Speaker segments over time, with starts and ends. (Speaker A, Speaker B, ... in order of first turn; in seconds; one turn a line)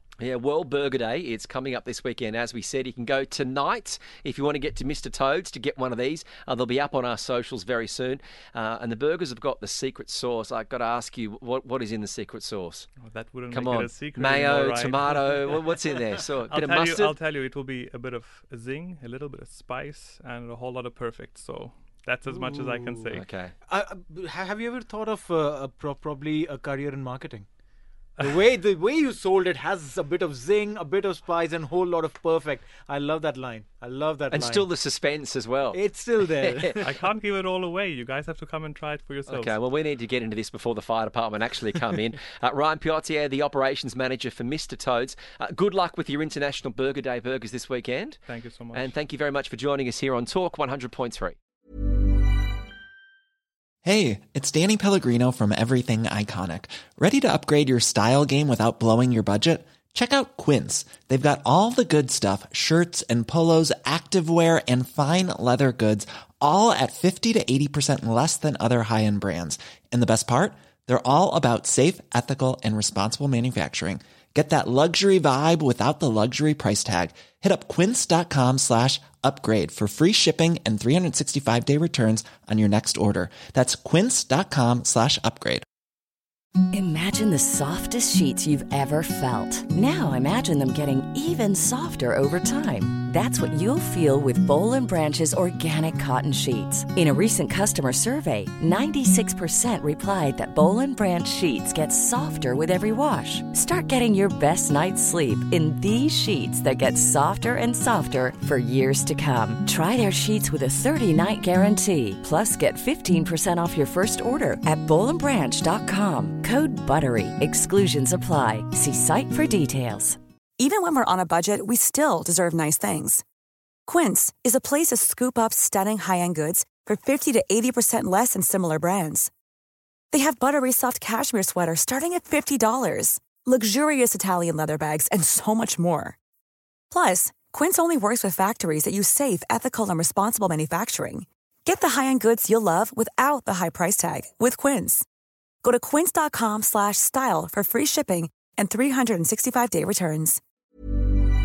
Speaker A: 0.2-12.9
Speaker B: 13.0-15.8
Speaker A: 13.5-17.1
Speaker B: 16.5-23.3
Speaker C: 22.3-23.1
Speaker A: 23.1-23.5
Speaker C: 23.7-27.4
Speaker C: 28.2-34.7
Speaker A: 34.3-36.8
Speaker C: 35.7-36.9
Speaker B: 36.8-39.5
Speaker A: 39.3-48.2
Speaker B: 48.3-49.0
Speaker A: 48.7-51.4
Speaker D: 53.8-85.7
Speaker E: 86.7-120.2
Speaker F: 120.6-123.2
Speaker F: 123.9-129.3
Speaker F: 130.1-136.2
Speaker F: 136.9-145.1
Speaker F: 145.6-150.4